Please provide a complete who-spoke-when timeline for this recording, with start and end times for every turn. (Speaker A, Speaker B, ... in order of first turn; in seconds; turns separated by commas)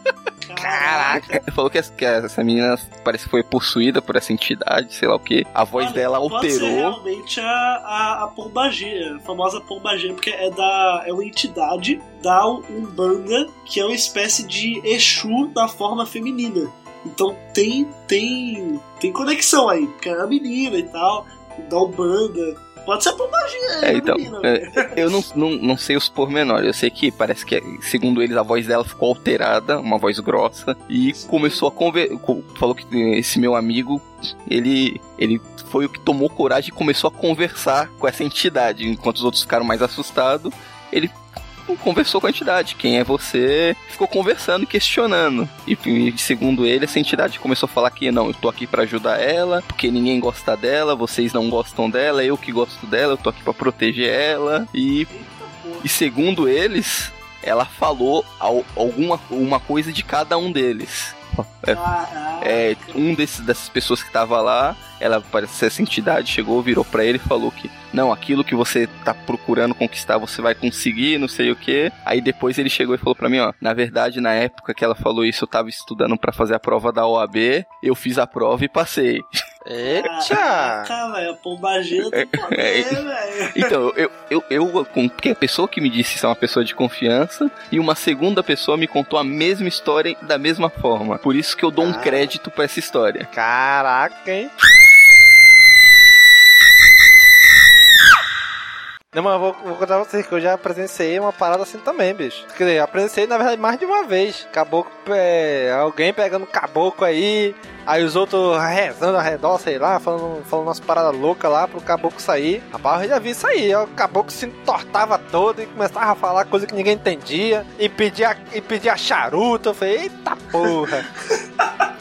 Speaker A: 0.4-1.4, Speaker B: 0.6-1.2, Speaker C: 1.4-7.0, Speaker A: 5.7-24.9, Speaker C: 23.8-55.1, Speaker A: 55.1-55.9, Speaker C: 55.8-61.9, Speaker A: 61.7-63.0, Speaker C: 62.4-79.3, Speaker B: 79.6-80.9, Speaker A: 80.0-83.7, Speaker C: 82.0-83.0, Speaker C: 83.5-93.3, Speaker B: 91.8-92.3, Speaker B: 93.3-94.5, Speaker B: 99.1-121.1